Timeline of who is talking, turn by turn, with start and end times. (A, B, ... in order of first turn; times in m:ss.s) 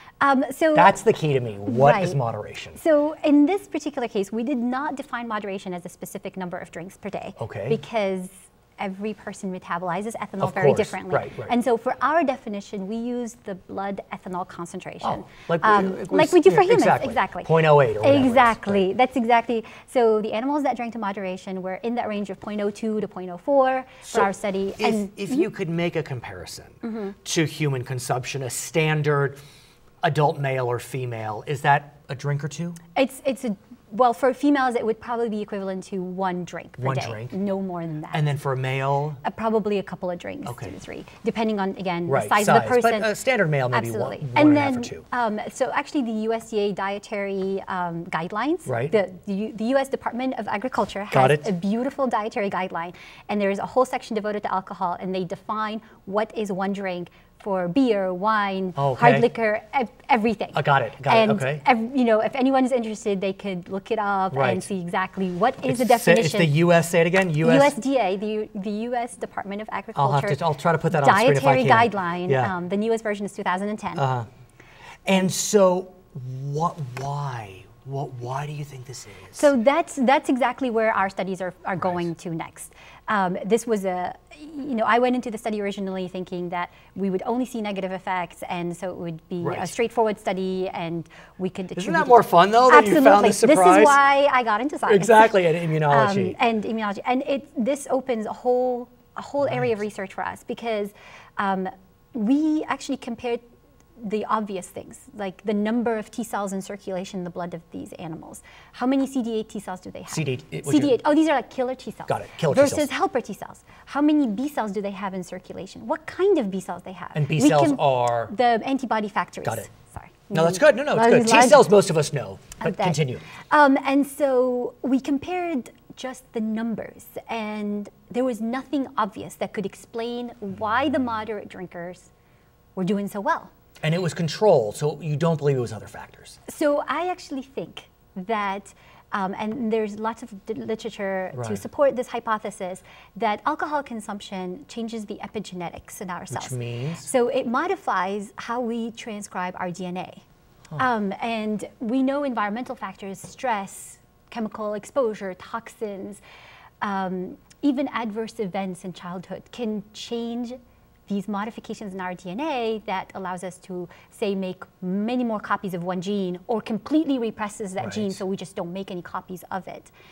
0:00.2-0:01.0 A
0:00.7-0:02.8 B
0:01.7-0:02.2 A
0:02.8-0:25.5 A
0:07.4-0:07.8 B
0:10.4-0:11.5 B
0:15.0-0:18.8 B
0:24.1-0:29.4 B
0:26.8-0:27.1 A
0:30.0-0:32.8 B
0:33.0-0:38.2 A
0:36.8-0:37.4 B
0:38.1-0:39.2 B
0:39.2-0:43.1 A
0:40.4-0:40.8 B
0:42.0-0:45.0 B
0:43.7-1:06.5 A
0:48.6-0:49.0 B
0:51.1-0:51.5 B
0:58.8-0:59.3 B
1:00.5-1:01.6 B
1:04.3-1:04.7 B
1:05.6-1:07.8 B
1:07.4-1:14.0 A
1:09.9-1:12.5 B
1:14.0-1:14.3 B
1:15.0-1:19.5 B
1:19.4-1:43.4 A
1:21.8-1:22.0 B
1:29.4-1:29.8 B
1:31.8-1:34.0 B
1:34.8-1:36.4 B
1:39.4-1:39.8 B
1:44.0-2:01.7 A
1:50.1-1:51.0 B
1:52.1-1:52.9 B
1:57.1-1:58.3 B
2:00.3-2:03.2 B
2:02.6-2:12.1 A
2:12.8-2:13.5 A
2:13.8-2:16.4 B
2:16.5-2:30.2 A
2:21.3-2:21.6 B
2:26.3-2:27.1 B
2:30.8-2:36.2 A
2:36.8-2:49.9 A
2:47.8-2:48.2 B